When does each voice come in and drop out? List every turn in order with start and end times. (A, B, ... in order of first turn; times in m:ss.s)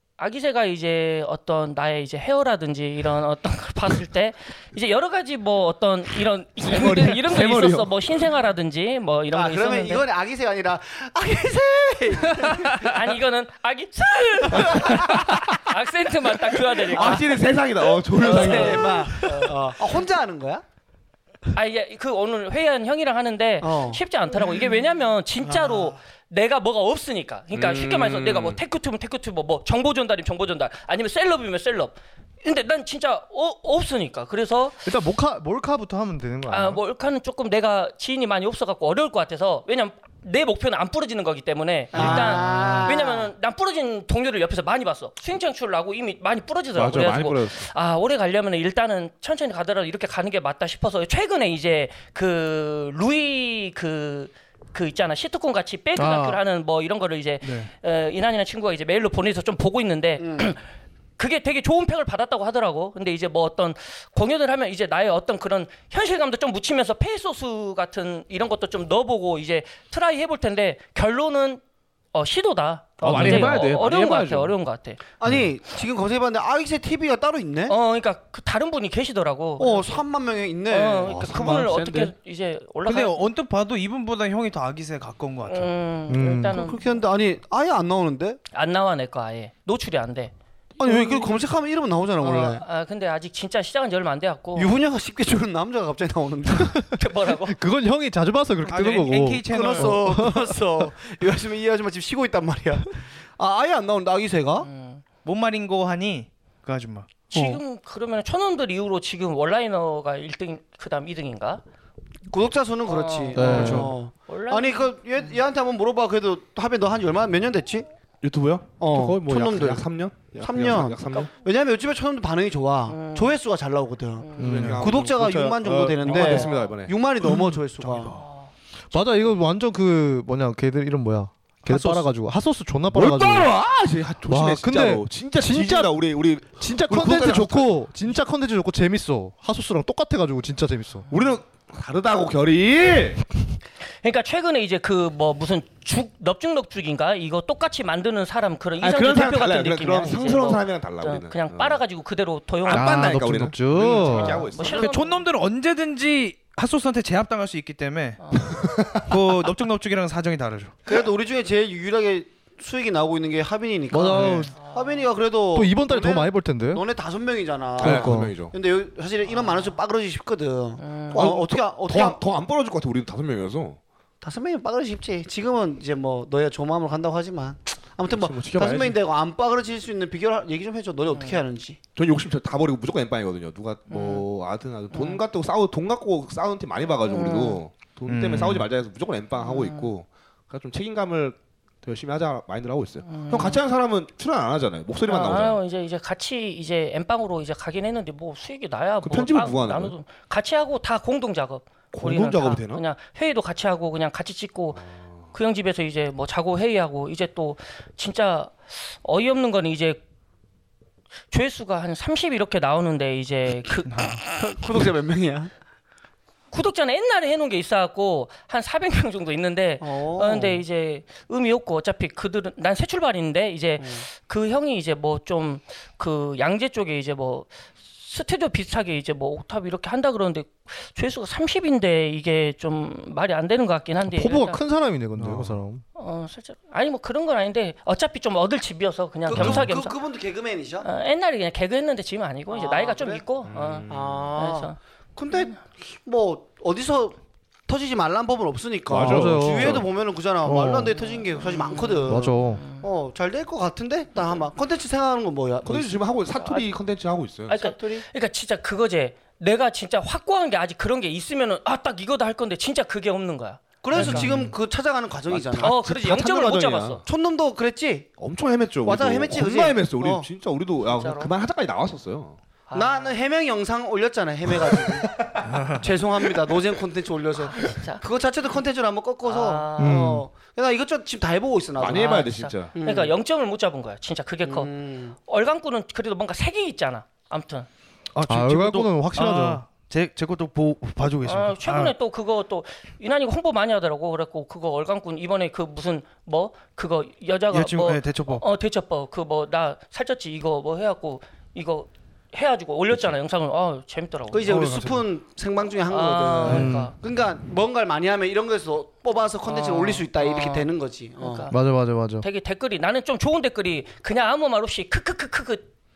0:00.2-0:10.0 A
0:06.6-0:07.9 B
0:09.3-0:12.9 C
0:12.7-0:17.4 A
0:14.5-0:15.6 B
0:16.9-0:19.2 B
0:16.9-0:17.5 C
0:18.1-0:20.6 C
0:18.2-0:19.4 A
0:21.5-0:34.8 A
0:23.6-0:24.0 C
0:25.5-0:25.9 D
0:27.5-0:28.6 B
0:34.8-0:36.8 E
0:36.5-1:00.6 A
0:41.9-0:43.3 C
0:46.7-0:47.7 B
0:56.0-0:56.4 E
0:57.4-0:57.7 D
1:00.2-1:00.4 C
1:01.2-1:11.6 A
1:12.1-1:15.0 A
1:13.0-1:14.5 B
1:13.1-1:13.5 E
1:15.2-1:17.7 C
1:17.7-1:20.0 A
1:19.6-1:21.3 C
1:20.7-1:23.2 A
1:21.1-1:22.1 B
1:22.8-1:25.7 D
1:25.4-1:27.0 A
1:26.1-1:26.6 E
1:26.5-1:28.4 C
1:28.5-1:30.3 A
1:30.8-1:32.6 C
1:30.8-1:31.3 A
1:32.2-1:34.7 A
1:34.5-1:36.9 C
1:37.0-1:37.6 A
1:37.4-1:40.9 E
1:38.7-1:40.1 D
1:39.5-1:44.7 C
1:44.6-1:45.0 A
1:45.2-1:47.6 D
1:47.3-1:51.6 A
1:52.3-1:57.9 C
1:52.9-1:54.9 A
1:53.3-1:53.9 E
1:53.5-1:53.9 D
1:58.2-2:01.3 B
1:58.8-2:08.2 C
2:02.9-2:03.4 A
2:04.2-2:04.6 A
2:04.4-2:07.0 B
2:04.4-2:04.9 E
2:04.5-2:04.8 D
2:06.0-2:06.7 A
2:07.8-2:08.2 D
2:08.1-2:08.5 A
2:08.9-2:13.5 E
2:11.7-2:12.0 B
2:12.9-2:17.8 B
2:14.3-2:15.9 E
2:16.6-2:21.0 E
2:21.1-2:23.2 B
2:24.0-2:33.0 A
2:28.8-2:31.8 B
2:32.6-2:35.0 B
2:32.7-2:34.4 E
2:34.0-2:35.2 A
2:34.6-2:38.2 D
2:38.2-2:38.7 A
2:38.5-2:39.1 B
2:39.0-2:40.7 D
2:40.9-2:52.2 C
2:43.9-2:44.5 E
2:44.1-2:44.4 D
2:44.5-2:45.1 A
2:45.5-2:46.8 E
2:47.8-2:48.5 B
2:47.8-2:48.4 E
2:49.3-2:49.7 A
2:50.8-2:51.3 A
2:51.1-2:53.8 B
2:54.2-3:01.8 C
2:58.1-2:59.0 B
3:01.1-3:01.4 A
3:01.9-3:15.6 B
3:03.9-3:04.3 A
3:04.9-3:05.2 A
3:07.0-3:07.6 A
3:08.1-3:08.7 D
3:09.4-3:09.9 A
3:13.0-3:13.6 A
3:15.1-3:30.0 A
3:19.0-3:20.0 B
3:21.9-3:22.8 B
3:24.8-3:25.1 B
3:31.3-3:34.2 A
3:33.9-3:34.2 D
3:34.3-3:35.5 C
3:36.5-3:54.6 A
3:39.8-3:40.6 C
3:43.8-3:44.0 C
3:54.0-3:55.8 E
3:55.2-3:55.4 D
3:55.2-3:55.6 B
3:56.0-4:00.0 A
3:59.2-4:00.9 C
4:00.8-4:04.8 A
4:02.5-4:03.2 C
4:03.4-4:04.3 B
4:03.9-4:16.0 C
4:08.9-4:09.9 B
4:09.0-4:09.8 E
4:10.4-4:10.9 E
4:10.9-4:12.9 A
4:12.1-4:12.6 E
4:15.6-4:17.6 B
4:16.4-4:16.7 A
4:17.5-4:24.3 A
4:17.5-4:18.0 C
4:23.8-4:25.8 C
4:24.2-4:24.5 E
4:25.3-4:27.0 B
4:25.6-4:27.0 A
4:27.0-4:28.1 C
4:28.2-4:32.4 B
4:28.8-4:30.3 C
4:30.9-4:31.3 A
4:32.7-4:33.2 A
4:32.7-4:42.2 C
4:34.6-4:35.5 B
4:35.5-4:35.8 D
4:37.5-4:38.0 A
4:39.2-4:40.1 A
4:39.8-4:40.2 E
4:41.8-4:42.7 B
4:41.9-4:47.7 A
4:42.7-4:43.1 C
4:44.4-4:45.2 C
4:48.1-4:51.9 D
4:48.2-4:49.6 E
4:51.2-5:04.6 A
4:57.5-4:58.4 D
5:04.3-5:11.5 C
5:04.5-5:05.0 D
5:05.9-5:07.0 A
5:06.4-5:06.9 E
5:09.4-5:11.6 A
5:11.5-5:12.2 E
5:12.2-5:15.7 A